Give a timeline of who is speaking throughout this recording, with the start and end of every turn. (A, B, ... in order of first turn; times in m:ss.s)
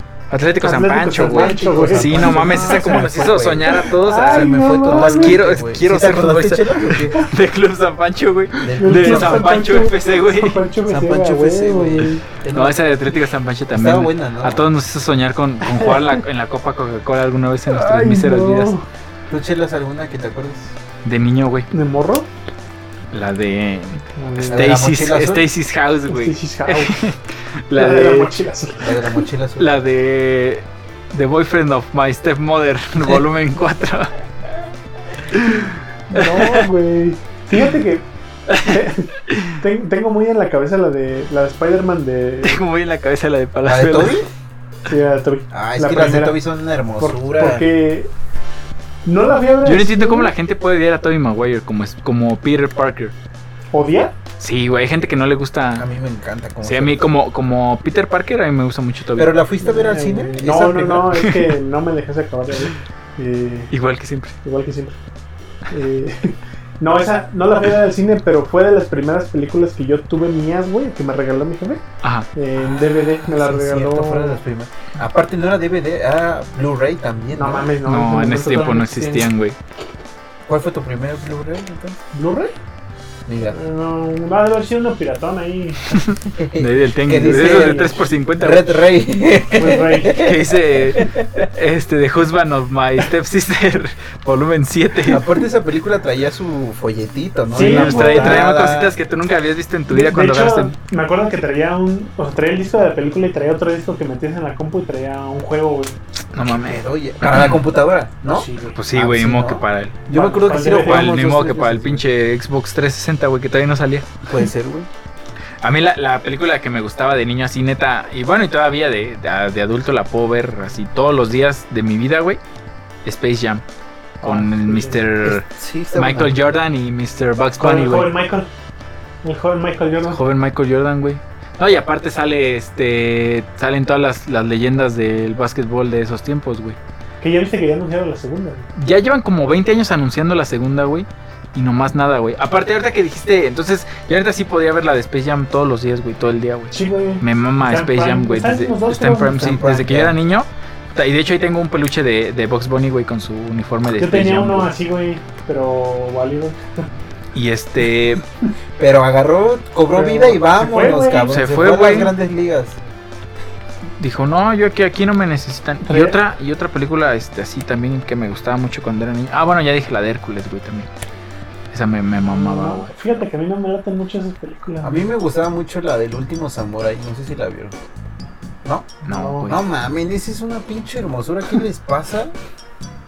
0:00.3-0:10.6 A
0:00.6-0:05.4 B
0:01.1-0:07.2 C
0:08.5-0:12.2 B
0:08.6-0:09.4 C
0:10.8-0:12.8 C
0:12.5-0:18.7 A
0:13.7-0:14.6 C
0:15.6-0:16.2 B
0:17.7-0:18.9 B
0:19.3-0:20.8 C
0:21.0-0:21.7 A
0:21.7-0:22.3 B
0:23.1-0:28.3 A
0:24.2-0:24.8 B
0:24.5-0:25.4 C
0:26.1-0:26.9 B
0:27.7-0:29.2 B
0:28.8-0:29.8 C
0:29.6-0:34.1 A
0:35.3-0:36.7 A
0:36.1-0:42.6 B
0:38.5-0:39.6 A
0:42.4-0:44.2 A
0:43.6-0:44.3 C
0:44.9-0:46.4 B
0:45.5-0:47.6 C
0:47.0-0:48.1 B
0:49.0-0:50.3 B
0:49.6-0:53.1 A
0:53.7-0:54.1 B
0:54.4-0:55.8 A
0:55.8-0:57.1 C
0:56.6-0:59.3 A
0:59.1-1:01.1 C
0:59.6-1:03.7 B
1:01.2-1:01.5 A
1:03.7-1:04.3 A
1:04.4-1:05.0 B
1:05.7-1:11.8 B
1:12.0-1:12.3 A
1:12.3-1:14.4 B
1:13.2-1:17.7 C
1:17.3-1:19.3 B
1:17.8-1:19.6 A
1:20.5-1:22.0 C
1:22.1-1:22.5 B
1:23.3-1:23.6 C
1:23.5-1:26.0 B
1:25.9-1:28.8 A
1:26.3-1:31.4 C
1:27.1-1:28.1 B
1:29.5-1:30.2 B
1:30.2-1:35.2 A
1:35.0-1:39.0 C
1:37.5-1:38.5 B
1:37.6-1:40.7 A
1:39.9-1:46.0 B
1:46.3-1:47.6 A
1:46.4-1:52.0 C
1:48.3-1:48.8 B
1:48.7-1:54.1 A
1:50.1-1:51.2 B
1:54.2-1:54.9 C
1:55.6-2:02.4 A
2:03.0-2:03.6 A
2:04.2-2:05.0 B
2:04.2-2:08.1 A
2:05.2-2:06.3 C
2:07.6-2:08.5 B
2:09.2-2:10.2 B
2:10.1-2:16.8 A
2:17.2-2:18.7 B
2:18.8-2:34.7 A
2:26.7-2:29.6 B
2:29.3-2:30.1 C
2:34.0-2:36.8 B
2:37.3-2:38.2 A
2:38.8-2:42.8 C
2:39.9-2:41.4 B
2:41.3-2:42.1 A
2:44.0-2:50.9 A
2:45.8-2:46.2 B
2:51.7-2:53.2 A
2:52.2-2:55.1 B
2:54.8-2:57.7 C
2:58.6-3:02.3 C
2:59.0-2:59.5 B
2:59.0-2:59.6 A